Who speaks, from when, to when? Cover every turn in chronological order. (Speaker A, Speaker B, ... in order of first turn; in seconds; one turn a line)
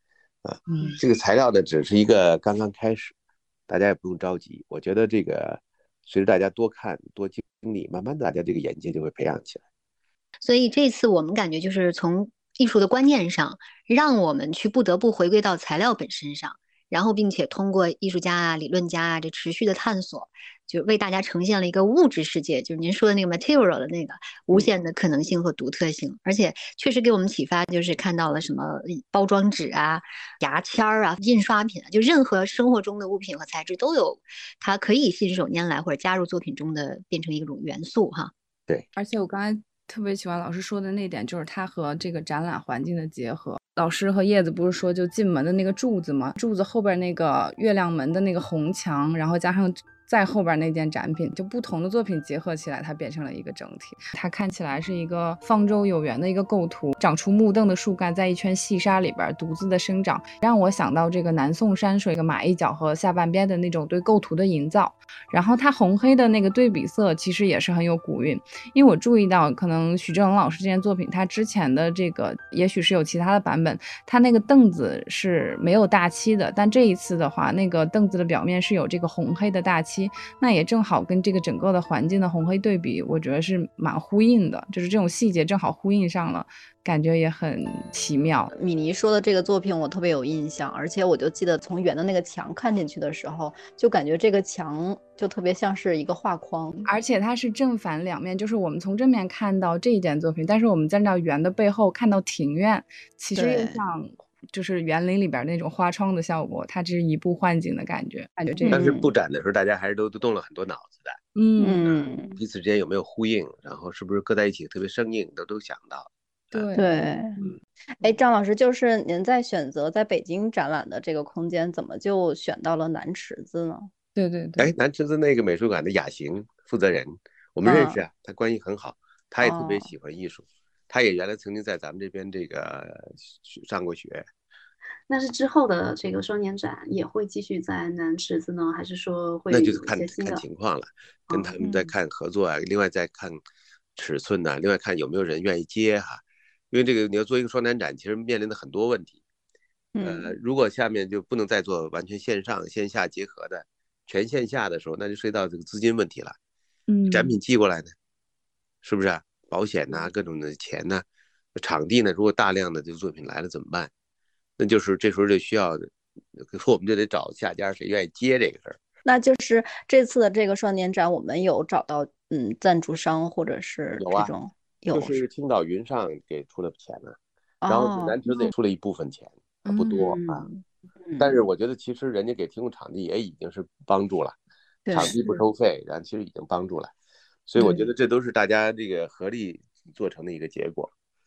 Speaker A: 0.4-3.1
Speaker A: 3.7-9.6
Speaker B: 10.4-38.3
Speaker C: 39.0-88.5
Speaker D: 88.5-96.8
Speaker C: 96.8-108.9
Speaker D: 103.3-103.8
Speaker D: 108.5-109.1
Speaker A: 108.7-111.2
Speaker C: 111.3-111.8
Speaker D: 111.6-112.3
Speaker A: 111.8-116.7
Speaker C: 116.5-117.4
Speaker D: 116.7-117.4
Speaker D: 118.0-123.9
Speaker C: 124.2-124.7
Speaker A: 124.6-134.2
Speaker D: 127.6-128.0
Speaker D: 129.4-129.9
Speaker E: 135.1-140.4
Speaker A: 139.5-143.4
Speaker A: 143.9-149.2
Speaker D: 149.9-150.3
Speaker A: 150.0-156.3
Speaker C: 156.9-157.3
Speaker A: 157.1-157.9
Speaker A: 158.8-161.0
Speaker A: 161.6-163.9
Speaker A: 164.6-168.8
Speaker D: 169.0-175.2
Speaker A: 174.0-174.3
Speaker A: 174.9-177.2
Speaker D: 177.6-178.5
Speaker A: 177.7-180.4
Speaker D: 179.7-181.3
Speaker A: 181.2-184.4
Speaker D: 184.8-185.2
Speaker A: 184.9-186.9
Speaker A: 187.5-190.9
Speaker D: 187.6-187.9